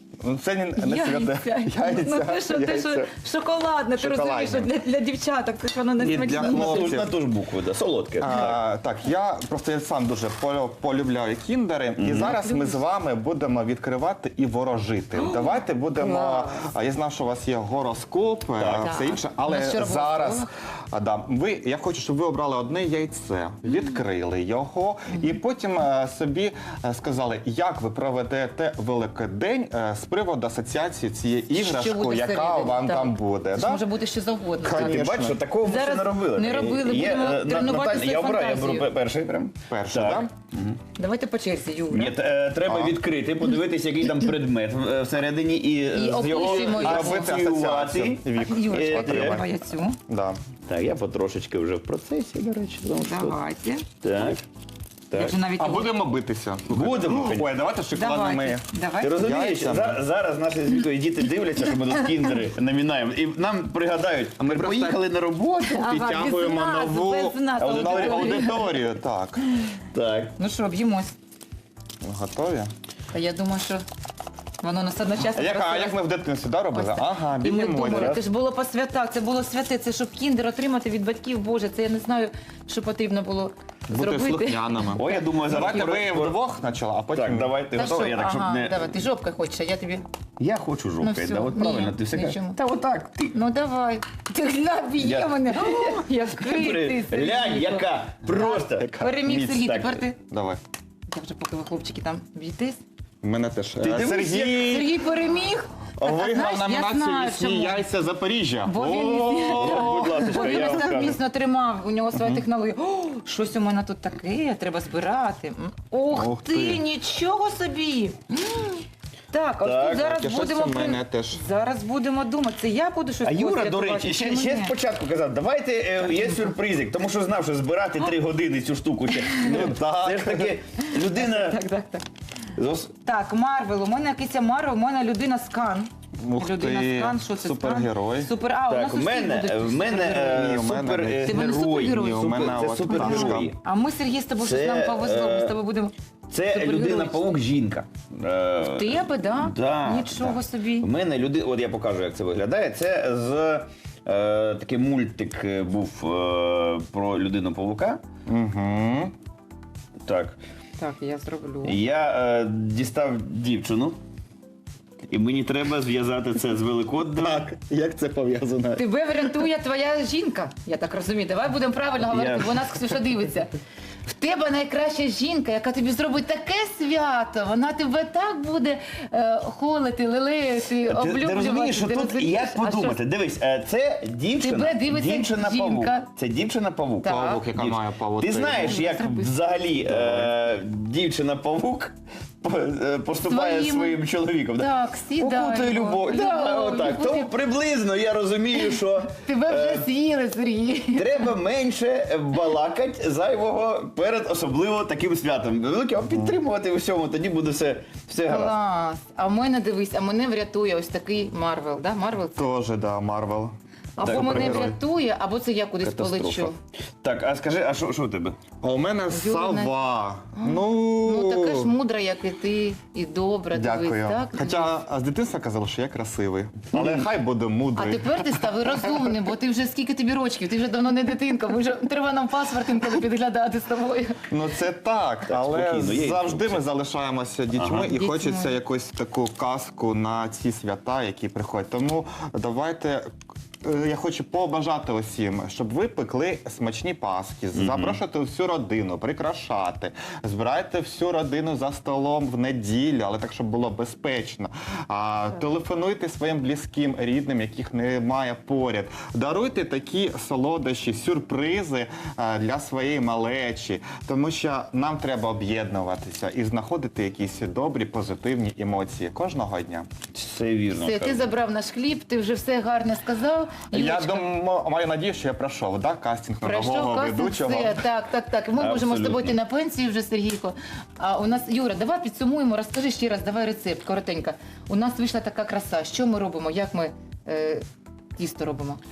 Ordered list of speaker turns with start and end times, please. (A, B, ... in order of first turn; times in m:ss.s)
0:00.2-0:03.1 A
0:00.8-0:07.0 B
0:04.0-0:04.7 A
0:06.0-0:07.1 A
0:06.4-0:08.6 C
0:08.2-0:33.8 A
0:12.0-0:12.4 C
0:12.3-0:12.8 B
0:15.2-0:16.7 B
0:18.6-0:18.9 C
0:18.8-0:20.5 B
0:31.5-0:35.0 B
0:34.6-0:35.4 A
0:34.7-0:40.8 C
0:35.6-0:38.9 B
0:39.7-0:40.3 A
0:41.0-0:42.2 B
0:41.9-0:49.4 C
0:42.7-0:43.0 A
0:45.9-0:47.3 B
0:46.3-0:49.5 A
0:48.4-0:50.0 B
0:50.1-0:50.4 A
0:50.7-0:53.4 C
0:53.0-0:53.9 B
0:54.0-0:54.4 C
0:55.1-0:55.4 C
0:55.1-0:55.9 B
0:55.6-1:00.0 A
0:56.7-0:57.5 C
0:57.9-0:59.2 B
0:59.0-1:06.1 C
1:04.4-1:05.0 A
1:05.6-1:08.7 B
1:05.9-1:09.4 A
1:07.6-1:08.8 C
1:09.9-1:10.3 C
1:10.4-1:11.2 B
1:12.0-1:12.7 A
1:13.1-1:13.8 B
1:14.6-1:16.0 B
1:15.2-1:18.2 A
1:16.7-1:25.2 B
1:23.9-1:28.1 A
1:24.9-1:26.4 C
1:27.1-1:29.0 C
1:27.7-1:30.0 B
1:30.4-1:33.4 C
1:31.0-1:32.6 B
1:33.3-1:40.2 B
1:35.0-1:40.0 C
1:38.8-1:39.6 A
1:40.2-1:40.6 A
1:41.1-1:42.8 B
1:43.2-1:45.0 A
1:43.8-1:44.9 C
1:44.6-1:47.9 B
1:46.0-1:51.1 A
1:48.6-2:04.7 B
1:49.0-1:51.2 C
1:52.1-1:52.4 A
1:56.1-1:56.8 A
1:59.6-2:00.1 C
2:00.0-2:01.4 A
2:03.2-2:11.6 C
2:06.0-2:06.6 B
2:09.2-2:09.7 B
2:09.4-2:10.6 A
2:10.8-2:12.0 B
2:12.6-2:12.9 C
2:13.0-2:20.6 B
2:16.2-2:18.3 A
2:18.7-2:23.6 C
2:20.2-2:23.5 A
2:21.3-2:27.3 B
2:24.4-2:25.6 C
2:26.3-2:38.0 C
2:28.6-2:30.9 B
2:38.3-2:39.1 A
2:40.0-2:40.4 C
2:40.8-2:41.8 B
2:41.6-2:44.0 C
2:45.1-2:47.5 C
2:47.2-2:48.8 A
2:48.8-2:53.5 B
2:52.1-2:52.7 C
2:54.1-3:03.0 B
3:00.8-3:19.9 C
3:04.4-3:06.1 B
3:07.0-3:07.4 B
3:07.0-3:08.8 A
3:08.6-3:09.3 B
3:09.9-3:10.3 A
3:13.2-3:14.0 B
3:14.5-3:17.3 B
3:18.5-3:21.3 B
3:20.9-3:28.6 C
3:26.1-3:26.4 A
3:28.3-3:32.4 B
3:32.4-3:34.8 A
3:34.0-3:36.6 B
3:34.0-3:34.7 C
3:35.8-3:38.4 C
3:38.6-3:41.7 A
3:39.1-3:39.7 B
3:40.4-3:44.7 B
3:43.5-3:49.2 A
3:47.8-3:54.2 B
3:54.3-4:03.1 A
3:55.3-3:56.6 C
3:57.5-3:58.0 C
3:57.9-3:58.6 B
4:03.6-4:29.9 A
4:07.6-4:08.0 C
4:30.1-4:31.3 C
4:30.7-4:34.3 B
4:33.7-4:37.8 A
4:36.4-4:47.6 B
4:38.6-4:39.4 C
4:48.2-4:48.8 B